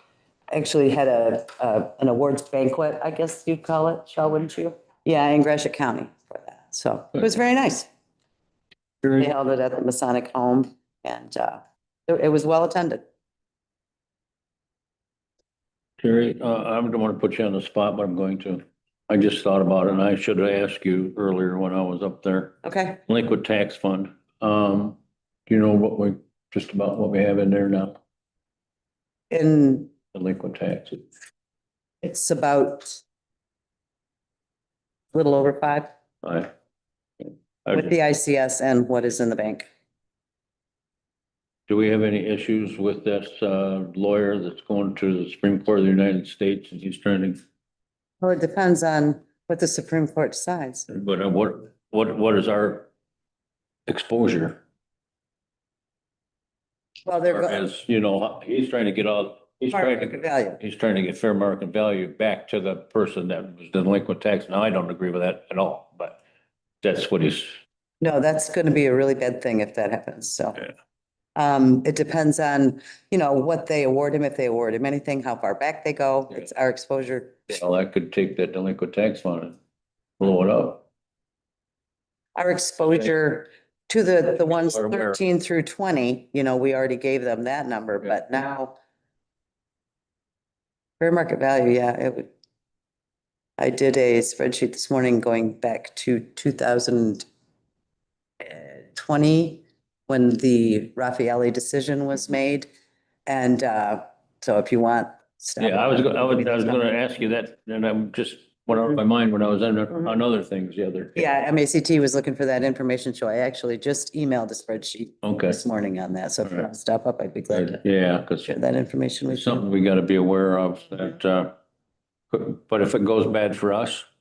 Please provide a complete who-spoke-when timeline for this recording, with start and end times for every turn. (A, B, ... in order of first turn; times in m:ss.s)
0:00.5-0:07.9 A
0:09.2-0:13.0 A
0:16.0-0:28.0 B
0:22.6-0:23.0 A
0:29.3-0:29.9 A
0:30.1-0:31.0 B
0:32.0-0:33.0 A
0:35.1-0:35.9 A
0:36.2-0:36.5 B
0:37.7-0:39.7 A
0:41.7-0:47.4 B
0:48.2-0:50.9 A
0:50.9-0:52.9 B
0:53.9-0:54.6 B
0:57.0-0:57.6 A
0:57.3-1:06.2 B
0:59.7-1:00.6 A
1:06.8-1:07.5 B
1:08.0-1:10.6 A
1:11.4-1:17.5 A
1:17.5-1:19.6 B
1:20.2-1:20.8 B
1:22.4-1:28.7 A
1:24.7-1:25.2 B
1:31.0-1:32.3 A
1:33.6-1:37.2 A
1:38.4-1:42.7 A
1:43.3-1:46.8 A
1:45.6-1:51.3 B
1:51.2-1:57.8 A
1:55.2-1:55.6 B
1:57.5-1:58.6 B
1:58.5-1:59.6 A
1:59.3-2:01.5 B
2:02.3-2:04.1 B